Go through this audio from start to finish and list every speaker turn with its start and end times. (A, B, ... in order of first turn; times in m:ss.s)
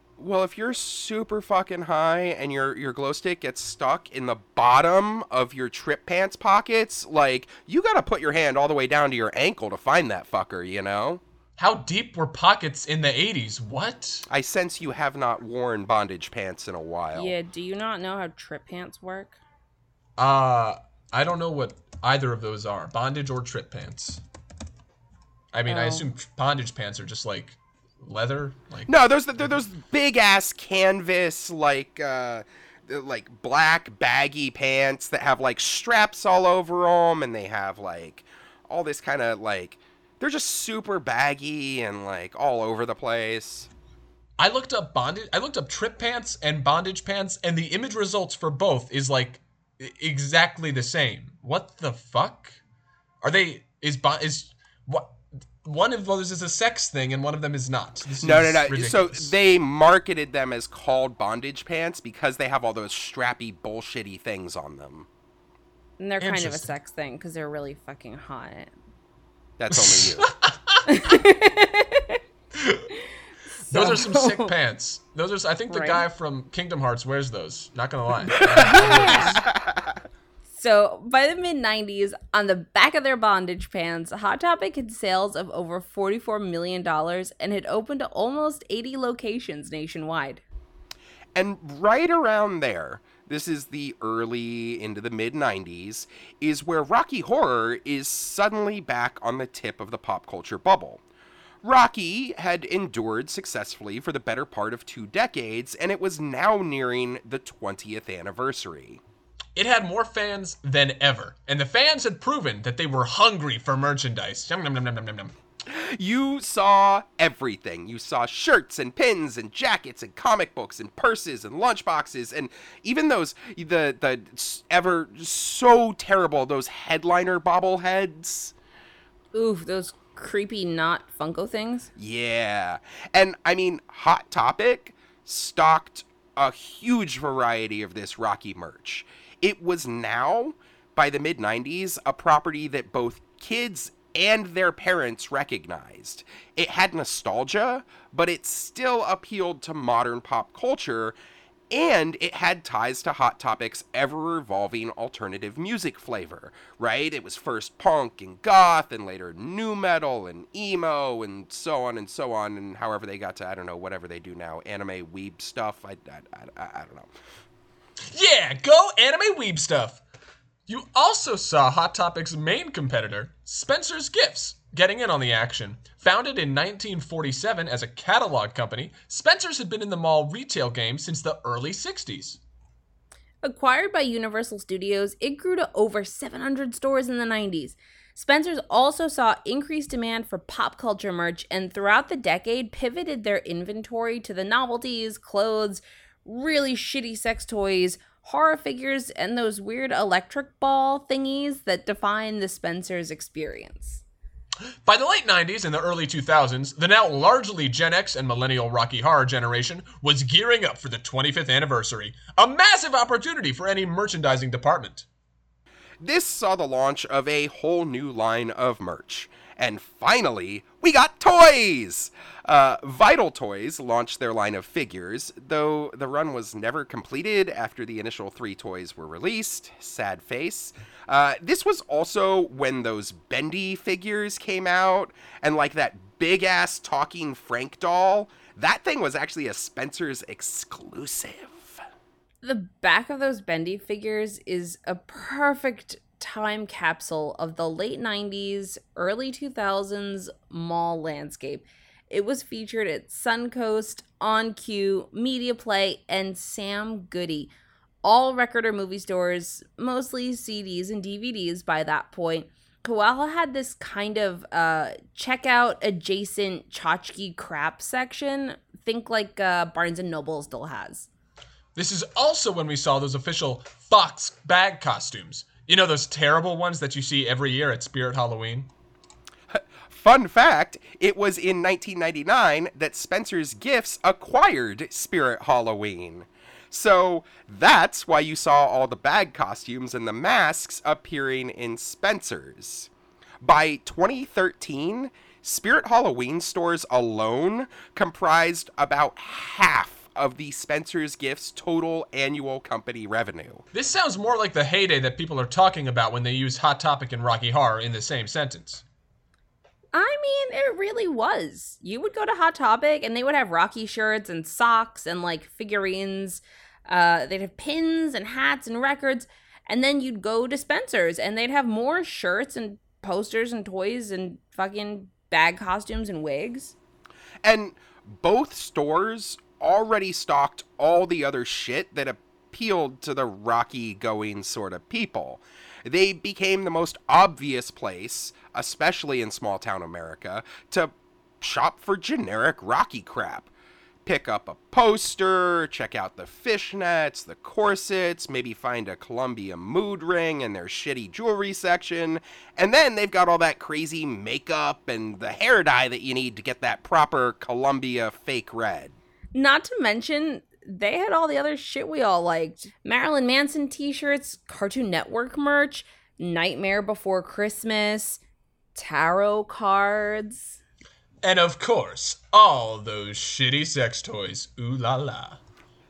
0:00.2-0:11.2 A
0:11.6-0:14.3 B
0:14.3-0:17.4 A
0:17.2-0:19.4 C
0:20.2-0:24.2 B
0:25.5-0:29.6 B
0:25.7-0:26.1 C
0:28.9-0:43.7 A
0:44.4-0:52.6 B
0:53.2-0:59.3 B
0:58.2-1:05.1 A
1:06.0-1:08.7 C
1:06.2-1:06.7 B
1:09.6-1:10.3 A
1:09.7-1:11.2 B
1:10.9-1:12.2 C
1:12.6-1:12.9 B
1:13.7-1:14.5 C
1:13.7-1:19.4 B
1:15.7-1:16.0 C
1:18.4-1:19.8 A
1:18.7-1:19.4 C
1:20.5-1:30.4 C
1:31.4-1:41.0 A
1:41.6-1:49.0 A
1:49.6-1:55.3 B
1:55.7-2:08.5 A
2:09.3-2:11.9 C
2:12.0-2:31.2 A
2:31.7-2:47.1 A
2:48.1-2:50.0 B
2:50.7-3:02.4 B
3:03.4-3:24.0 C
3:24.8-3:35.1 B
3:36.0-4:01.8 A
4:02.4-4:17.5 C
4:18.0-4:31.1 C
4:31.8-4:38.7 B
4:39.5-4:52.9 A
4:53.4-5:03.6 A
5:03.7-5:08.8 B
5:09.9-5:26.8 C
5:27.4-5:43.5 A
5:44.0-5:59.0 A
5:59.3-6:08.2 C
6:08.8-6:10.6 C
6:11.2-6:15.4 B